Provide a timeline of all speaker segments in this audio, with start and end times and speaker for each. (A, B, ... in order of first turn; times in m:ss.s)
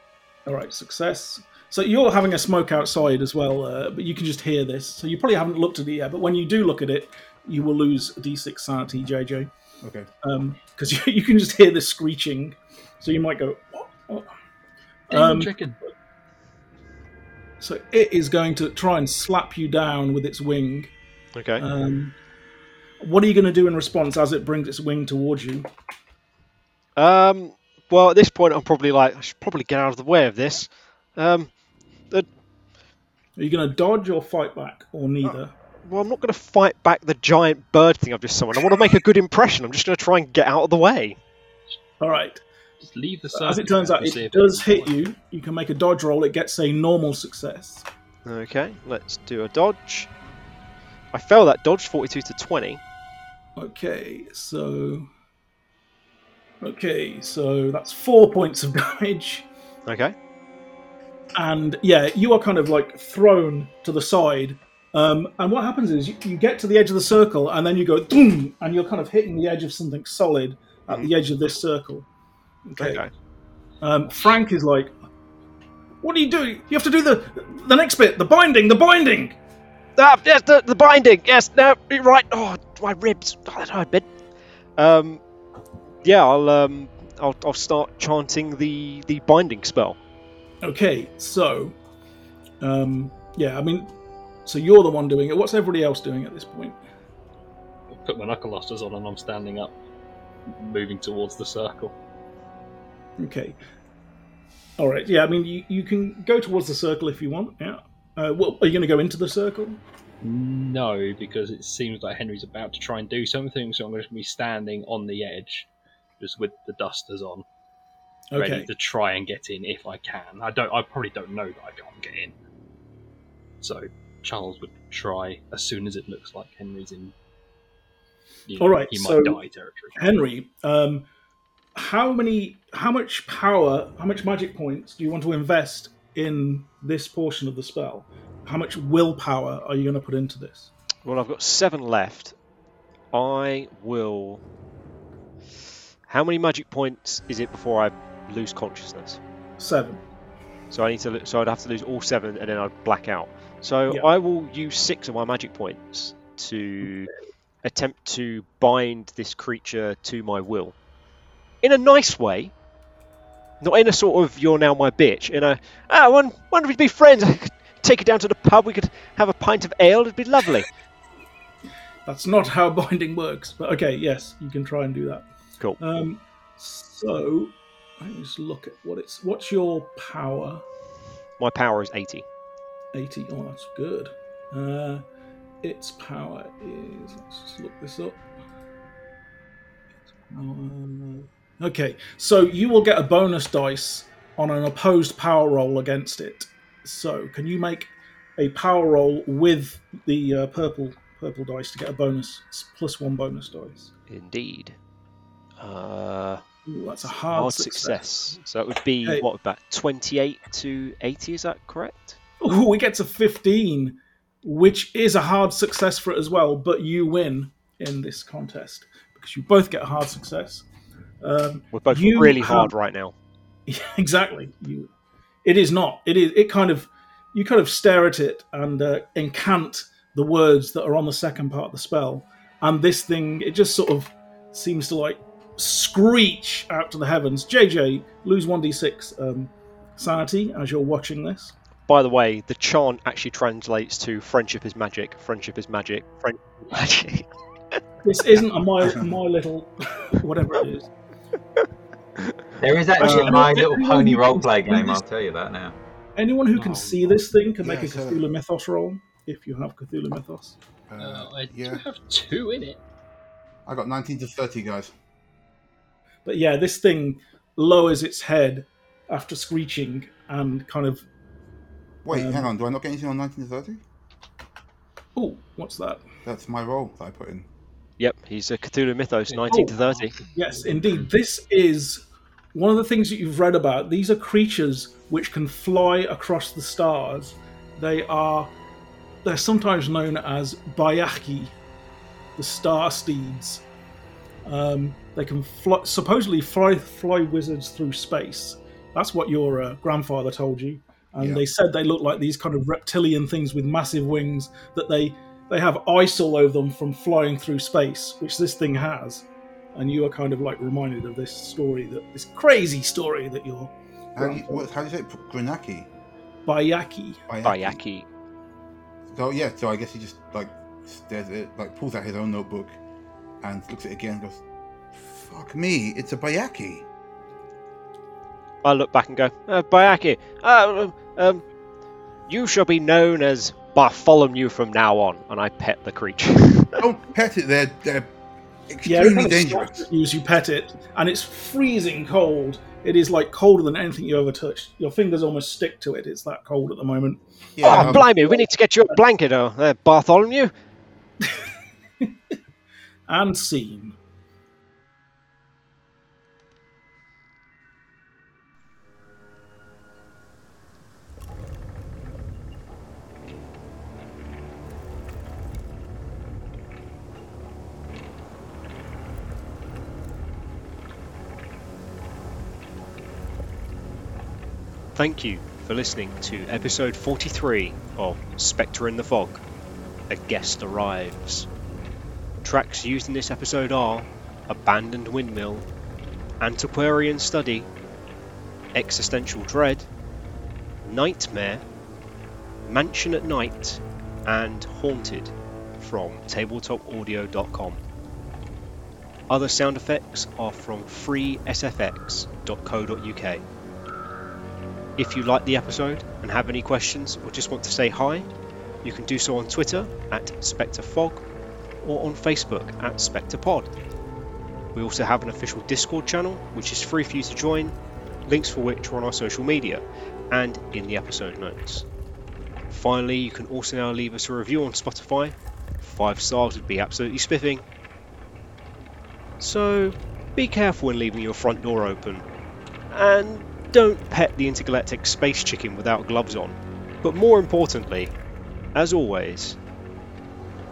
0:00.5-0:09.5 A
0:09.8-0:10.1 B
0:10.2-0:14.3 A
0:15.1-0:15.9 A
0:15.1-0:15.8 C
0:17.6-0:20.9 A
0:21.4-0:21.6 D
0:21.6-0:22.2 A
0:23.0-0:25.7 A
0:27.0-0:31.5 D
0:33.4-0:35.5 A
0:35.8-0:41.2 D
0:42.0-0:42.4 A
0:42.8-0:44.9 C
0:43.3-0:47.9 A
0:48.3-0:50.1 D
0:51.1-0:52.8 D
0:53.6-0:55.1 A
0:56.6-0:59.5 A
0:59.9-1:00.2 D
1:01.4-1:12.1 A
1:12.7-1:13.1 A
1:12.8-1:13.1 D
1:13.8-1:14.9 A
1:16.0-1:19.4 A
1:20.0-1:24.1 D
1:24.8-1:25.2 D
1:26.0-1:30.0 D
1:30.6-1:31.8 A
1:32.6-1:33.9 A
1:34.4-1:36.8 A
1:37.9-1:39.8 C
1:40.5-1:42.0 C
1:43.2-1:43.6 A
1:44.8-1:49.8 A
1:50.2-1:57.4 C
1:58.3-1:58.7 A
1:58.4-2:02.4 C
2:03.6-2:07.1 C
2:08.5-2:10.0 C
2:08.6-2:09.4 A
2:10.0-2:11.1 A
2:11.8-2:20.7 A
2:21.0-2:22.3 D
2:23.1-2:24.4 D
2:26.1-2:29.2 D
2:29.6-2:30.0 A
2:30.7-2:37.1 D
2:37.6-2:40.8 D
2:41.6-2:42.5 D
2:43.6-2:50.7 D
2:52.1-2:55.3 A
2:55.8-3:00.6 A
3:01.4-3:02.2 D
3:02.9-3:05.0 A
3:05.6-3:08.2 A
3:10.3-3:23.9 A
3:24.1-3:24.8 D
3:25.6-3:26.4 D
3:26.7-3:28.1 A
3:27.2-3:32.2 D
3:32.4-3:40.6 A
3:41.2-3:42.7 A
3:41.7-3:43.2 D
3:43.7-3:44.9 A
3:45.4-4:01.6 A
4:01.9-4:07.8 D
4:08.0-4:10.9 A
4:12.6-4:15.8 E
4:13.0-4:15.0 A
4:13.0-4:13.4 D
4:16.2-4:20.6 A
4:16.5-4:17.1 C
4:17.6-4:18.2 B
4:20.9-4:21.8 B
4:21.0-4:22.8 C
4:23.7-4:24.9 B
4:26.2-4:31.1 A
4:32.0-4:33.8 B
4:32.1-4:32.5 A
4:35.2-4:36.0 A
4:36.2-4:37.5 B
4:38.0-4:40.1 D
4:39.3-4:41.0 C
4:40.3-4:48.5 A
4:49.2-4:51.6 A
4:52.4-4:53.6 A
4:54.4-5:14.7 A
5:14.2-5:15.9 B
5:16.5-5:17.2 A
5:17.3-5:17.8 B
5:17.4-5:18.1 D
5:19.1-5:22.8 B
5:23.4-5:24.4 B
5:24.9-5:26.9 B
5:28.6-5:31.4 D
5:32.3-5:36.8 D
5:36.8-5:38.1 B
5:38.7-5:39.9 B
5:38.8-5:49.0 A
5:47.6-5:48.1 B
5:47.6-5:50.5 D
5:52.0-5:52.3 A
5:53.1-5:54.0 A
6:15.0-6:19.4 D
6:20.1-6:21.5 D
6:22.4-6:25.7 D
6:26.4-6:27.7 D
6:28.8-6:29.9 D
6:30.8-6:31.6 D
6:32.6-6:37.8 D
6:39.3-6:43.4 D
6:45.0-6:48.3 D
6:48.8-6:51.2 D
6:51.8-6:53.7 D
6:54.7-7:01.8 D
7:02.7-7:07.6 D
7:09.4-7:12.3 D
7:12.9-7:18.2 D
7:18.8-7:19.6 D